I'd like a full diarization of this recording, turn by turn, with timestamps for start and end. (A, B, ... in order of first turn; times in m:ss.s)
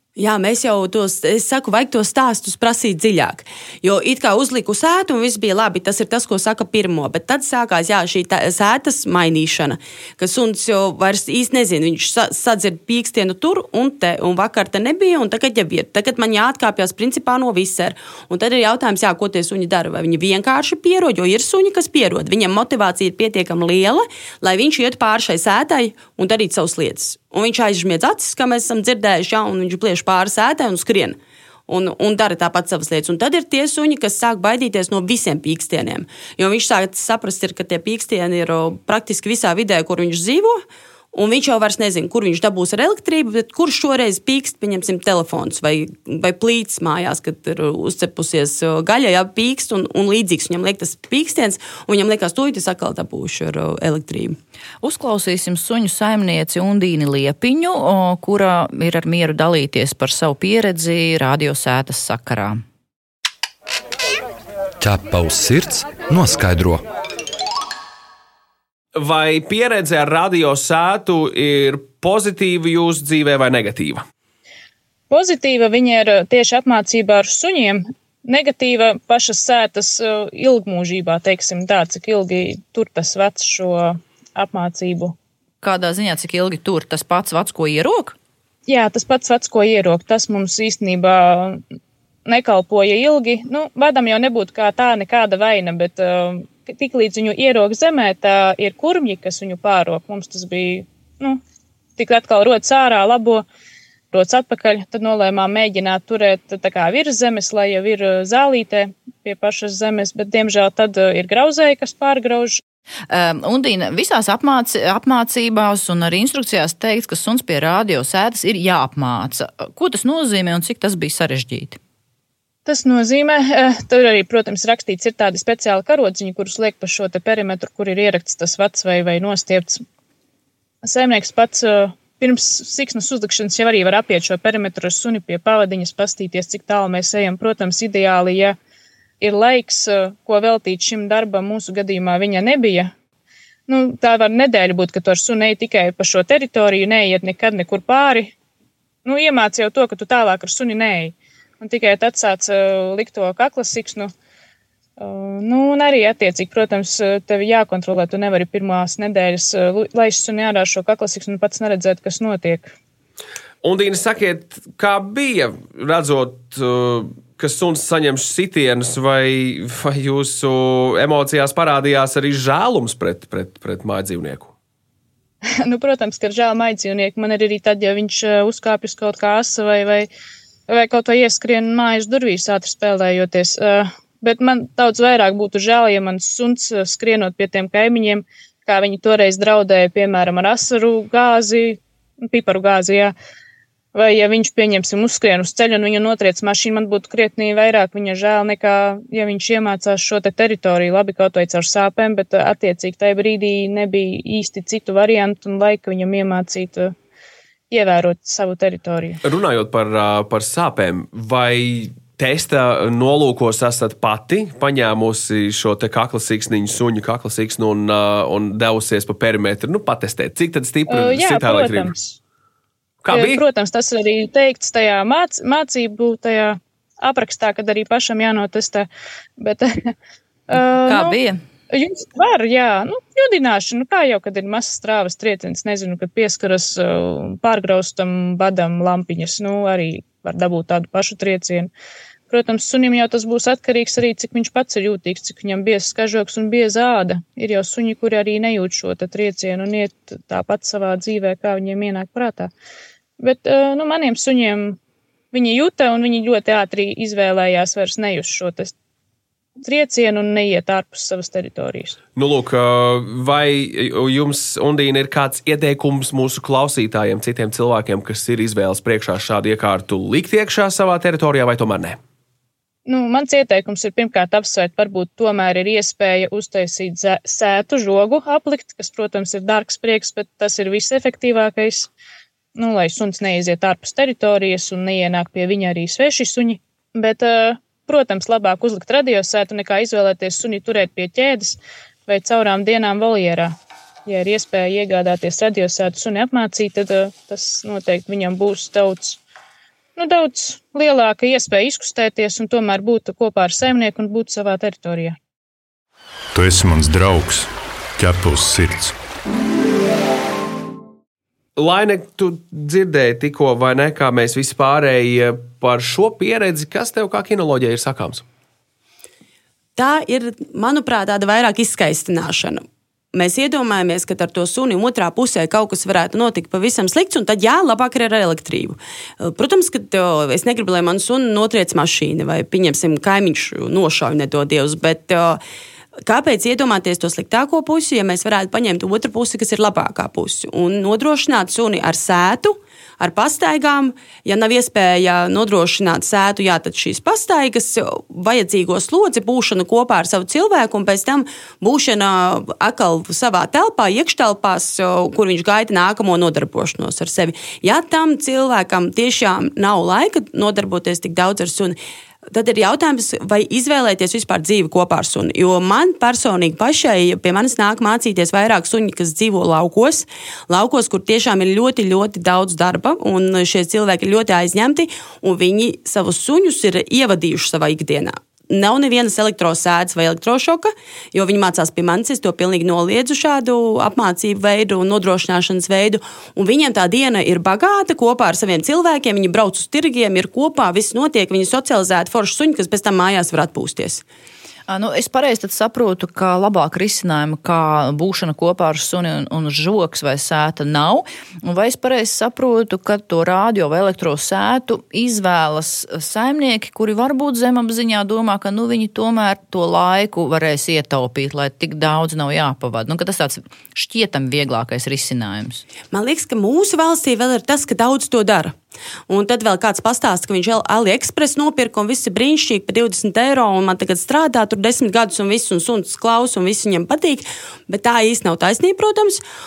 0:00.2-0:54.4 A
0:54.8-1:02.6 B
1:04.8-1:06.8 C
1:09.0-1:14.0 D
1:15.1-1:25.2 E
1:25.6-1:28.2 B
1:28.7-1:31.6 E
1:32.2-1:41.4 E
1:42.0-1:43.4 E
1:44.1-1:52.6 E
1:53.1-2:01.8 B
2:02.7-2:09.8 E
2:10.8-2:18.6 E
2:19.2-2:22.9 E
2:23.7-2:28.3 E
2:29.0-2:34.1 E
2:35.0-2:42.7 E
2:43.6-2:54.5 D
2:55.6-3:00.1 E
3:00.7-3:13.1 E
3:13.9-3:27.0 E
3:27.7-3:29.2 E
3:29.2-3:41.9 D
3:40.9-3:42.2 E
3:43.0-3:43.4 D
3:43.1-3:49.9 E
3:50.5-3:51.2 E
3:50.9-3:51.4 B
3:51.7-4:01.7 E
4:02.3-4:12.5 E
4:13.2-4:14.8 E
4:15.3-4:18.7 E
4:19.6-4:22.0 E
4:22.2-4:32.0 D
4:32.9-4:41.9 E
4:42.6-4:59.2 E
5:00.0-5:05.2 E
5:06.4-5:09.0 F
5:11.6-5:18.2 D
5:19.8-5:35.4 A
5:36.0-6:01.8 A
6:02.3-6:34.0 A
6:34.7-6:55.6 B
6:55.9-6:58.6 A
6:59.1-7:09.2 A